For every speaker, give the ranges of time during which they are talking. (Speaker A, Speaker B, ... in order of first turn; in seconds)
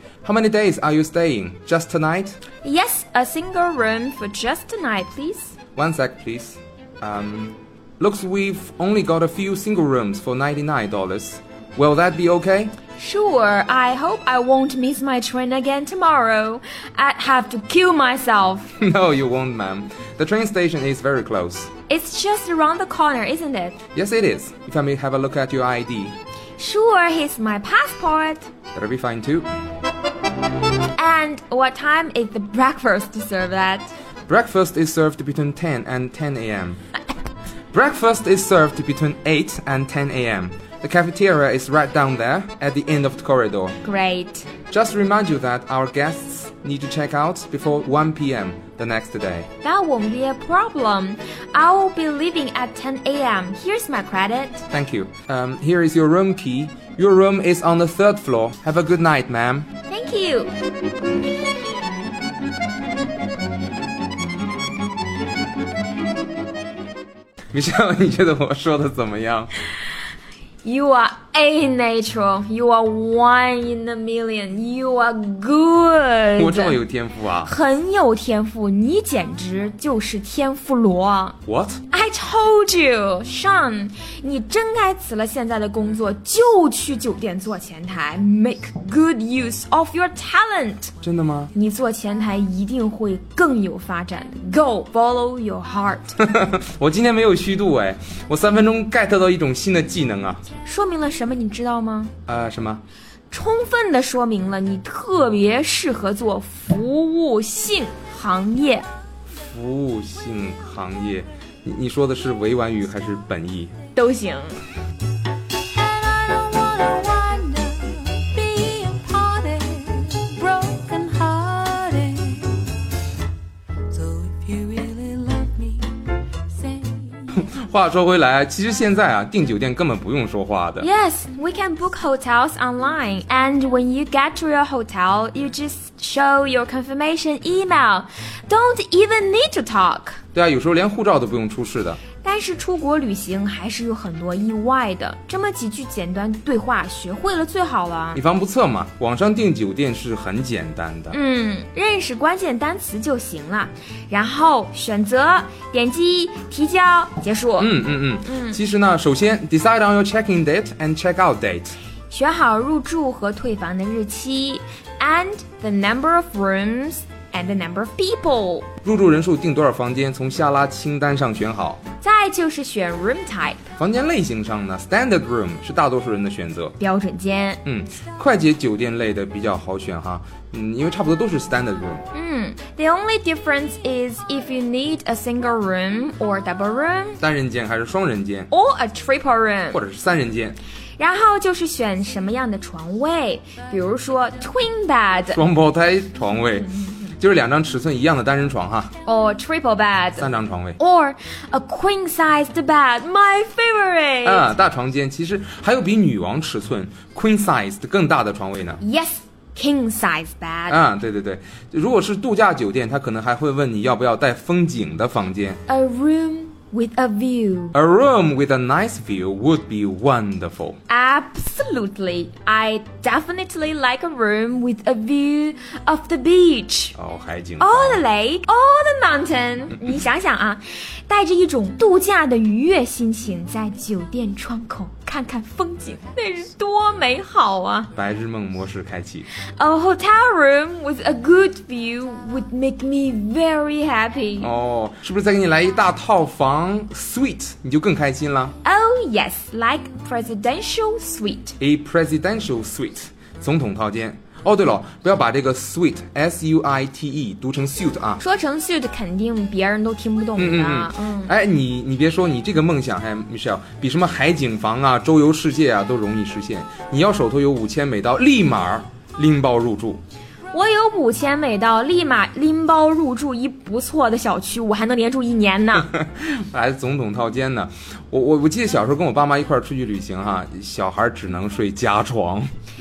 Speaker A: 0.2-2.4, 5.8-12.8, 18.8-21.7, 23.9-26.1, 28.7-29.5, 34.3-36.8, 37.7-43.8, 44.7-49.5, 54.7-59.7, 67.5-69.5, 76.4-77.5, 81.5-81.8, 91.0-91.5, 96.2-100.4, 102.3-102.8, 109.3-113.7, 127.3-130.9, 140.3-142.0, 148.1-151.2, 157.6-161.8, 168.8-171.8, 173.8-176.8, 177.6-182.1, 187.2-188.5, 189.7-190.6, 195.3-198.9, 200.2-200.8, 204.2-208.8, 210.7-215.6, 217.7-220.8, 227.0-228.0, 237.9-239.3, 244.4-248.5, 251.6-258.2, 260.4-270.0, 275.8-282.5
Speaker B: 2.6-5.5, 12.9-18.7, 21.9-23.8, 26.6-28.5, 30.9-33.9, 43.8-44.5, 49.6-54.6, 59.9-60.5, 70.6-76.8, 77.4-81.4, 81.9-90.9, 91.5-96.2, 100.6-102.1, 103.3-108.9, 113.9-114.6, 130.8-140.2, 142.2-148.2, 151.1-158.6, 162.1-168.7, 172.0-173.6, 176.8-177.6, 182.1-187.2, 188.5-189.8, 191.0-195.4, 199.0-200.3, 200.8-204.5, 208.8-210.8, 215.7-217.8, 220.9-226.9, 227.6-237.9, 239.3-244.5, 248.6-251.6, 258.2-261.4, 270.5-275.9
Speaker C: 115.8-122.6, 123.9-126.0, 126.5-127.1